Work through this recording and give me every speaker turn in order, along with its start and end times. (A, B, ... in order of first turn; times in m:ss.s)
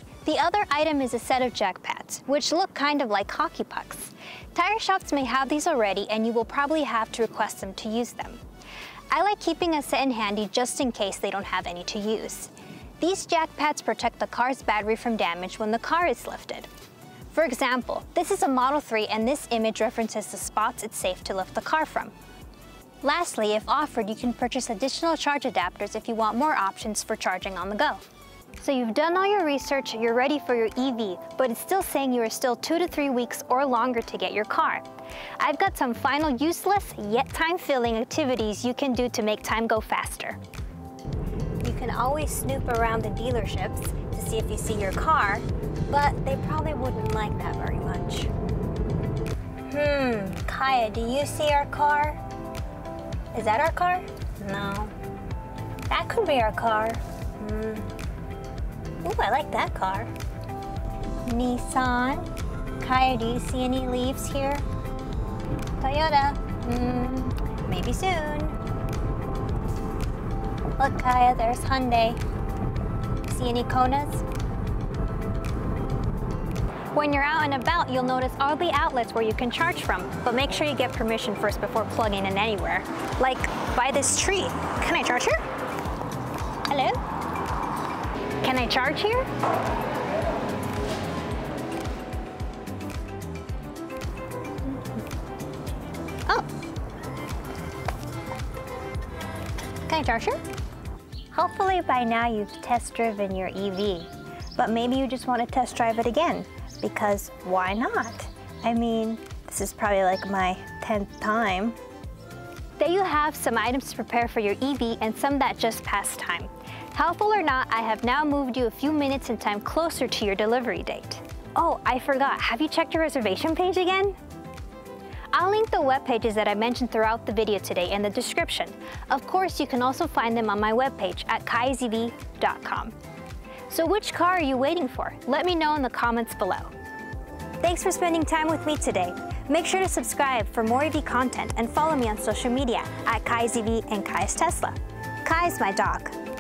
0:00.2-0:08.4 A
0:09.1-0:16.7 A
0:17.3-0:22.1 A
0:23.0-0:28.0 A
0:28.6-0:34.9 A
0:35.4-0:40.4 A
0:41.6-0:48.3 A
0:49.7-0:52.2 A
0:53.3-0:55.0 A
0:55.9-0:57.9 A
0:59.0-1:00.1 A
1:01.2-1:04.6 A
1:05.8-1:08.6 A
1:10.8-1:12.2 A
1:13.3-1:14.2 A
1:16.9-1:25.4 A
1:26.7-1:27.0 A
1:28.4-1:29.3 A
1:39.9-1:40.4 A
1:41.3-1:51.8 A
1:52.8-2:04.2 A
2:05.3-2:12.9 A
2:13.7-2:16.7 A
2:17.6-2:26.2 A